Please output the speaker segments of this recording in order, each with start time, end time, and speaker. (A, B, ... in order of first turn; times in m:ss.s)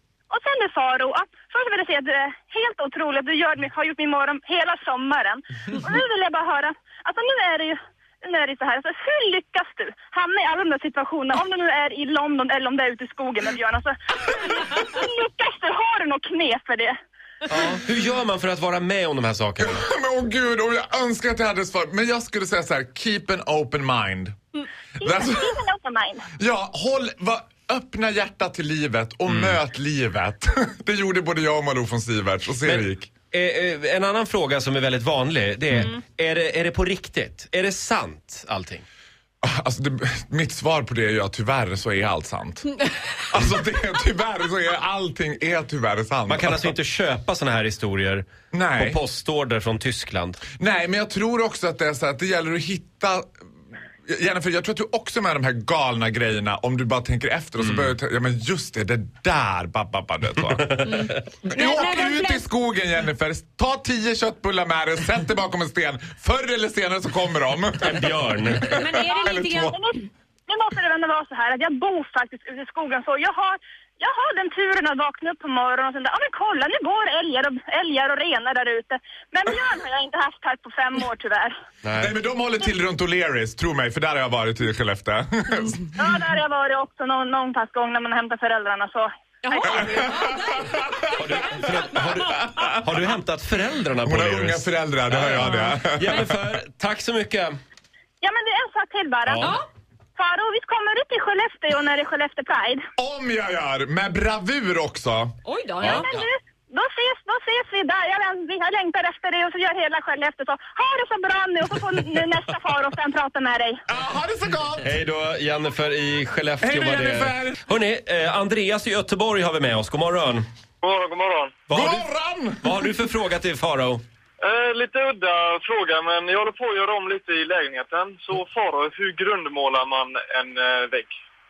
0:00.3-0:17.0 A
0:17.5-0:19.8 B
0:19.6-0:24.4 C
0:25.0-0:26.3 A
0:25.0-0:25.6 C
0:26.4-0:33.1 C
0:29.3-0:29.6 B
0:32.6-0:38.8 B
0:39.4-0:46.7 C
0:46.3-0:50.4 B
0:48.5-0:49.0 C
0:50.6-0:53.3 C
0:54.1-1:00.8 C
0:57.6-0:57.9 B
1:00.6-1:01.1 B
1:00.8-1:02.4 D
1:01.5-1:09.8 C
1:07.8-1:08.9 B
1:08.7-1:09.7 D
1:09.1-1:21.5 A
1:21.8-1:22.1 B
1:22.0-1:26.1 C
1:26.0-1:30.4 A
1:29.4-1:30.8 D
1:29.6-1:32.8 C
1:31.2-1:37.6 B
1:31.4-1:32.5 D
1:34.0-1:36.4 C
1:35.4-1:35.7 D
1:38.2-1:39.5 A
1:40.2-1:42.8 A
1:43.0-1:46.0 C
1:45.4-1:46.0 D
1:45.9-1:53.8 A
1:53.9-1:55.0 C
1:54.8-2:00.4 B
1:56.6-1:57.6 C
2:00.8-2:01.6 E
2:01.7-2:02.1 B
2:01.7-2:02.8 C
2:02.6-2:04.0 B
2:04.5-2:11.1 E